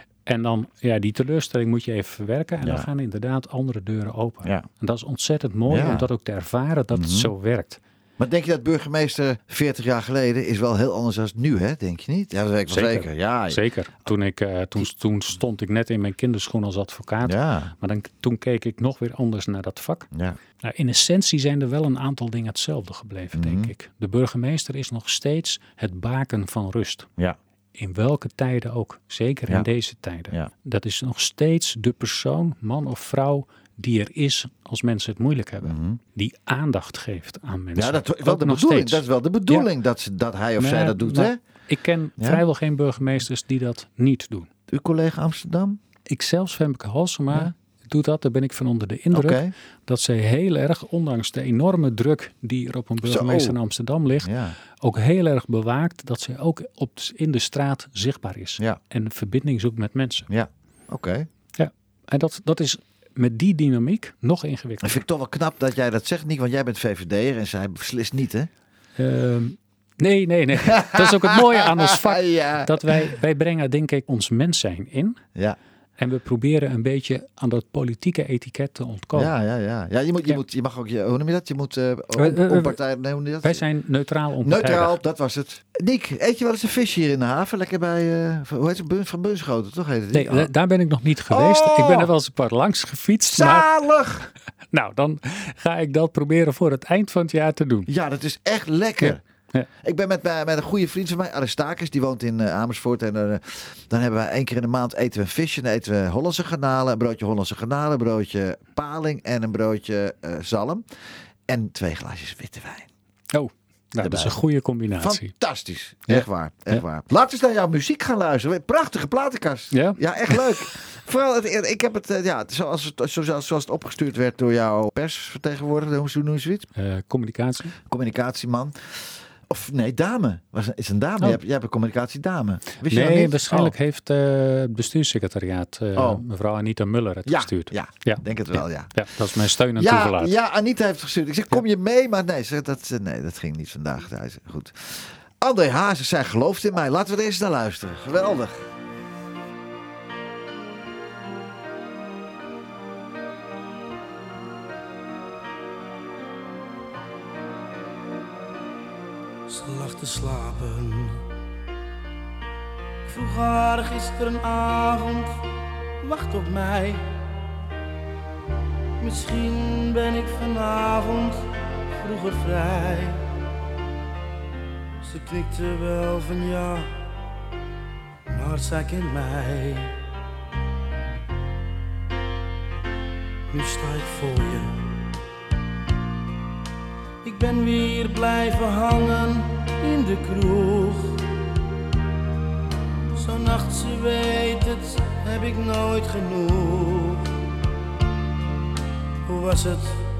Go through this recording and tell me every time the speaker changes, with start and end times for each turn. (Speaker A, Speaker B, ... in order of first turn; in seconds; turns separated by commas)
Speaker A: 0.2-7.8, Speaker B: 2.6-2.9, Speaker B: 5.7-6.1, Speaker B: 6.9-7.3, Speaker B: 8.2-13.6, Speaker A: 12.7-20.1, Speaker B: 17.2-17.7, Speaker B: 20.1-20.4, Speaker A: 20.6-27.1, Speaker B: 23.3-23.7, Speaker A: 27.8-39.7, Speaker B: 35.6-36.0, Speaker B: 37.7-41.4, Speaker A: 40.6-44.5, Speaker B: 44.7-45.8, Speaker A: 46.1-60.3, Speaker B: 49.1-49.5, Speaker B: 53.0-53.6, Speaker B: 54.2-54.5, Speaker B: 60.3-61.3, Speaker A: 61.6-65.0, Speaker B: 64.8-68.5, Speaker A: 69.0-75.2, Speaker B: 70.7-73.0, Speaker A: 76.0-79.3, Speaker B: 79.1-83.6, Speaker A: 82.2-82.8, Speaker A: 83.4-85.0, Speaker B: 84.4-90.5, Speaker A: 90.1-93.7, Speaker B: 91.3-92.1, Speaker B: 93.3-94.2, Speaker A: 94.7-97.9, Speaker B: 97.9-99.2, Speaker A: 99.0-99.7, Speaker B: 99.8-110.8, Speaker B: 111.5-112.9, Speaker A: 113.3-115.3, Speaker B: 114.0-114.4, Speaker B: 115.0-126.7, Speaker A: 116.1-116.8, Speaker A: 119.7-120.4, Speaker A: 126.8-127.8, Speaker B: 127.9-133.7, Speaker A: 132.9-140.3, Speaker B: 135.9-136.2, Speaker B: 137.2-139.0, Speaker B: 139.8-148.7, Speaker C: 159.5-161.2, Speaker C: 163.1-165.3, Speaker C: 166.0-167.0, Speaker C: 169.0-171.4, Speaker C: 171.9-173.2, Speaker C: 175.0-176.9, Speaker C: 178.3-179.9, Speaker C: 183.5-184.7, Speaker C: 187.2-191.2, Speaker C: 193.1-197.3, Speaker C: 199.2-200.0